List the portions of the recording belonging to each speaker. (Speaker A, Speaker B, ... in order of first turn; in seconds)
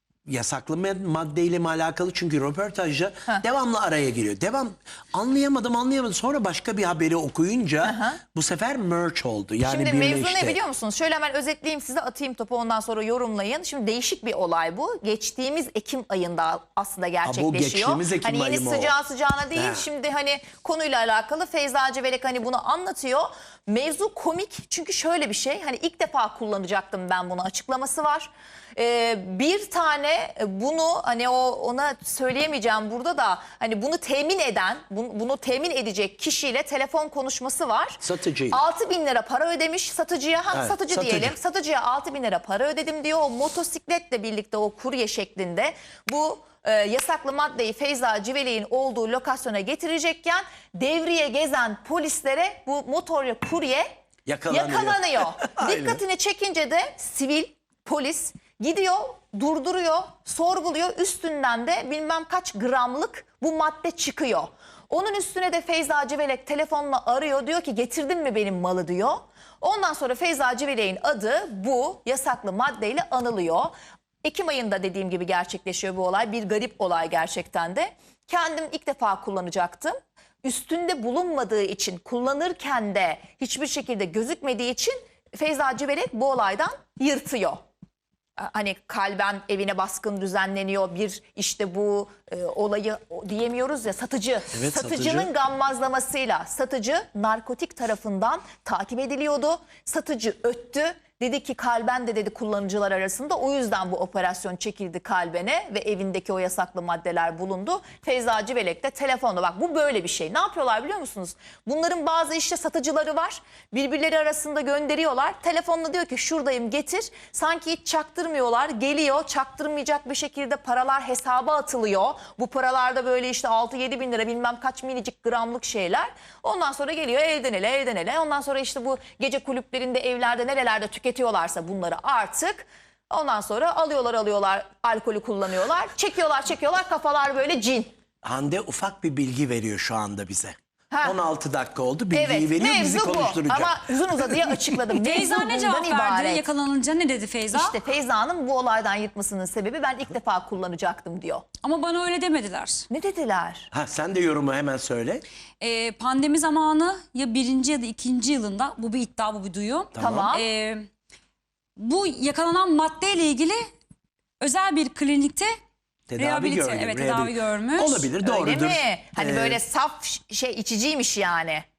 Speaker A: 0.3-10.6, 17.2-18.9, 19.6-19.9, 38.0-38.6, 40.5-41.4, 54.3-56.0, 94.5-95.3, 138.2-144.8, 153.7-155.2, 159.9-160.3, 166.1-169.6
Speaker B: 7.8-8.2, 9.6-53.9, 54.5-87.6, 88.4-137.9, 142.1-146.5, 147.5-151.4, 152.9-153.7, 160.0-160.5, 168.2-171.7
Speaker C: 144.9-147.8, 151.6-152.9, 155.6-160.9, 161.8-163.6, 164.4-165.5, 166.2-168.1